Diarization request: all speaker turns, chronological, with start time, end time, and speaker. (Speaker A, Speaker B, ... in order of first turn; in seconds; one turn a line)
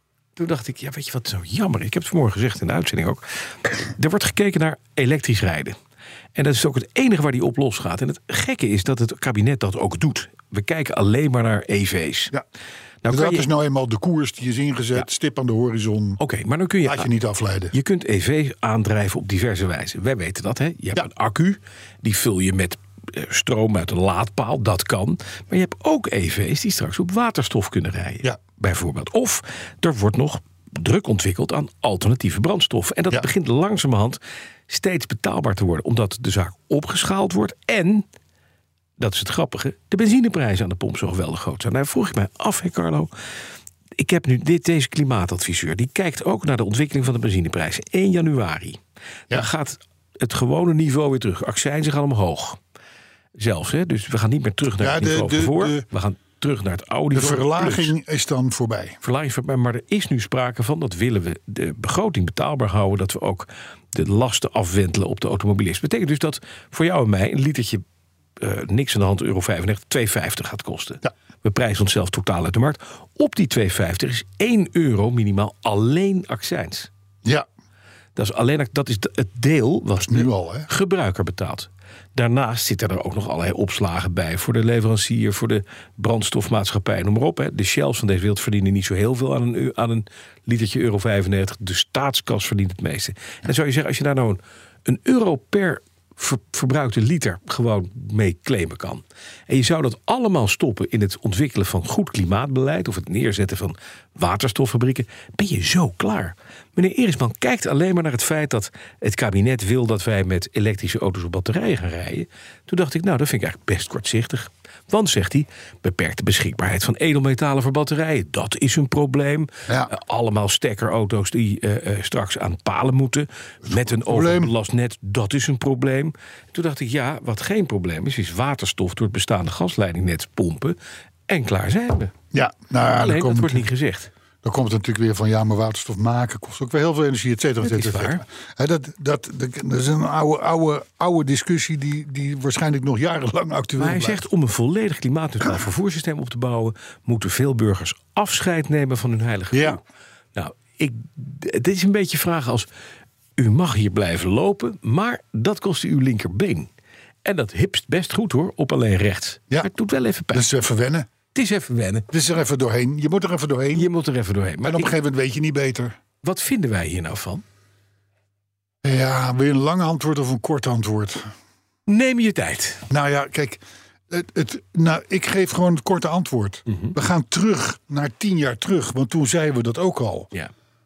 Speaker A: 0.3-5.8
Speaker A: 6.3-12.3
Speaker A: 13.0-13.5
Speaker B: 13.1-16.2
Speaker A: 16.2-17.1
Speaker B: 16.8-17.7
Speaker A: 17.7-38.0
Speaker A: 39.0-43.1
Speaker A: 44.0-52.6
Speaker A: 53.4-57.9
Speaker B: 54.8-55.8
Speaker B: 57.1-59.0
Speaker A: 59.0-67.8
Speaker A: 68.4-76.9
Speaker A: 78.2-130.8
Speaker B: 80.0-80.7
Speaker B: 119.7-119.9
Speaker B: 123.7-124.5
Speaker A: 131.3-132.1
Speaker B: 132.3-133.7
Speaker A: 132.9-134.1
Speaker B: 134.4-144.2
Speaker A: 137.6-138.2
Speaker A: 143.8-149.8
Speaker B: 149.5-149.8
Speaker A: 150.3-152.7
Speaker A: 153.4-156.7
Speaker A: 157.2-160.4
Speaker B: 160.3-161.1
Speaker A: 161.3-162.1
Speaker B: 162.1-163.9
Speaker A: 163.7-164.9
Speaker B: 164.6-166.0
Speaker A: 166.2-167.4
Speaker B: 168.8-171.3
Speaker A: 171.9-172.8
Speaker B: 172.9-180.3
Speaker A: 176.7-176.9